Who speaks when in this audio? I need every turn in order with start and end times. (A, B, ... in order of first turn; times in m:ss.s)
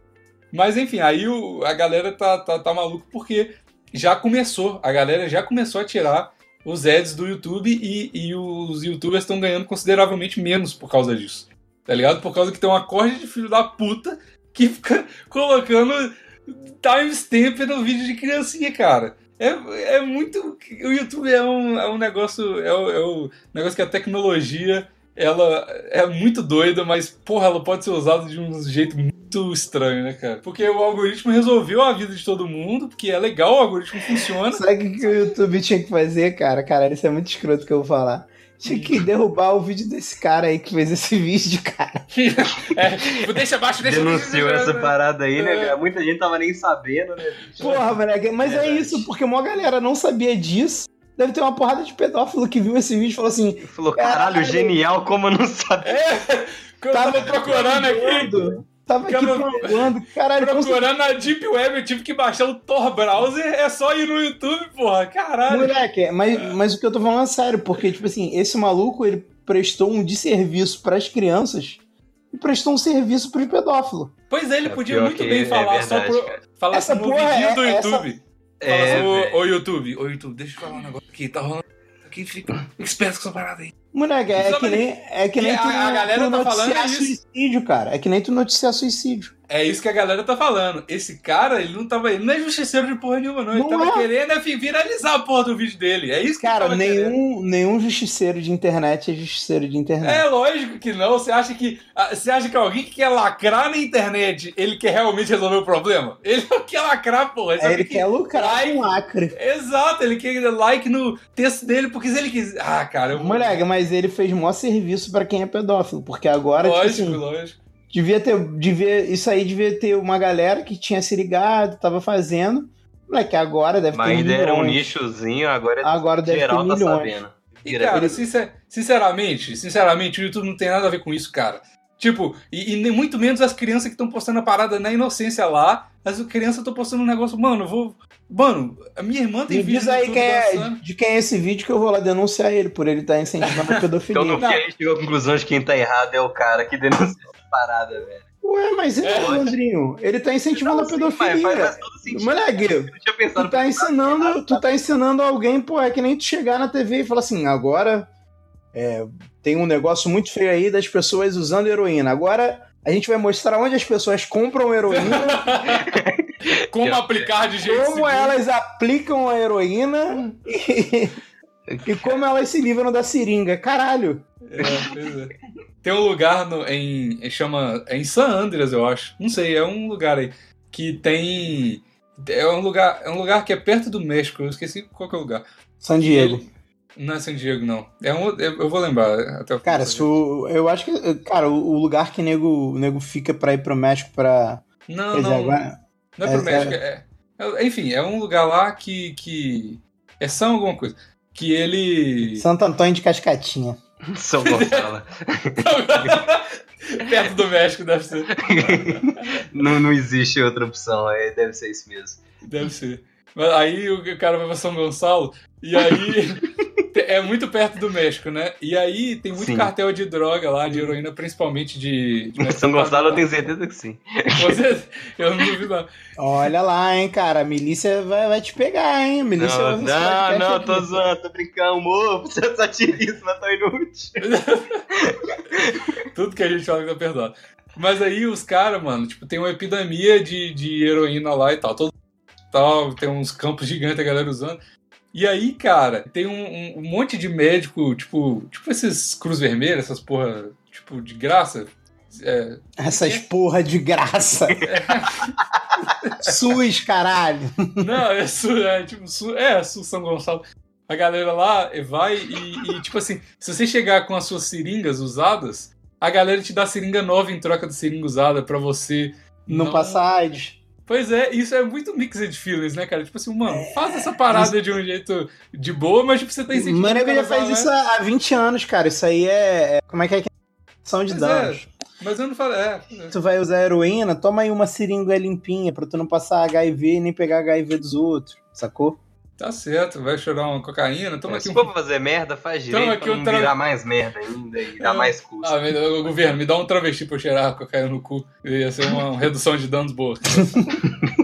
0:00.5-0:35.4 A
0:34.5-0:42.1 B
0:38.7-0:39.0 A
0:42.1-0:45.8 A
0:43.8-0:47.9 C
0:47.6-0:54.7 B
0:48.4-0:49.1 C
0:53.7-0:56.0 C
0:55.8-0:58.3 A
0:56.9-1:00.9 B
0:58.2-0:58.6 C
0:59.1-1:05.8 A
1:05.5-1:11.8 B
1:12.3-1:14.1 B
1:14.3-1:23.7 A
1:14.7-1:16.4 C
1:16.7-1:18.1 B
1:18.6-1:19.4 C
1:23.9-1:29.3 B
1:24.3-1:24.8 A
1:25.4-1:27.2 A
1:29.5-1:37.2 A
1:33.5-1:34.1 B
1:36.4-1:40.2 B
1:40.0-1:53.6 A
1:47.6-1:49.4 B
1:53.1-1:57.2 B
1:56.6-1:57.6 A
1:57.9-2:05.0 B
2:03.9-2:08.2 C
2:05.8-2:07.2 B
2:07.6-2:20.8 A
2:19.5-2:24.4 B
2:23.5-2:23.8 A
2:24.1-2:28.2 C
2:24.4-2:24.6 A
2:28.4-2:38.1 B
2:29.0-2:29.5 A
2:29.2-2:29.5 C
2:30.6-2:34.6 C
2:38.7-2:45.6 B
2:44.9-2:45.9 A
2:45.8-2:47.3 C
2:46.4-2:48.4 A
2:47.6-2:51.2 B
2:51.8-2:54.2 B
2:54.5-3:05.4 A
2:54.6-2:54.9 C
3:05.8-3:06.4 B
3:06.0-3:10.1 A
3:09.6-3:16.8 B
3:14.9-3:15.6 A
3:16.2-3:22.5 A
3:22.3-3:23.8 B
3:24.1-3:26.2 C
3:24.4-3:24.9 A
3:25.6-3:29.4 A
3:28.3-3:32.2 C
3:32.5-3:43.3 A
3:39.4-3:39.7 C
3:42.4-3:44.6 C
3:44.4-3:45.9 A
3:46.2-3:50.9 B
3:49.4-3:54.2 C
3:54.2-3:54.9 A
3:54.9-3:56.0 C
3:56.1-4:01.9 A
4:02.5-4:04.6 A
4:05.1-4:13.3 A
4:12.8-4:14.6 B
4:14.6-4:16.4 A
4:16.2-4:17.9 B
4:17.8-4:30.0 A
4:29.5-4:30.6 B
4:30.9-4:37.7 A
4:33.5-4:34.5 B
4:36.5-4:40.3 B
4:40.8-4:41.7 B
4:41.1-4:43.2 A
4:43.1-4:49.0 B
4:49.4-4:51.7 A
4:51.3-4:56.2 C
4:52.7-4:53.5 A
4:54.8-5:00.7 A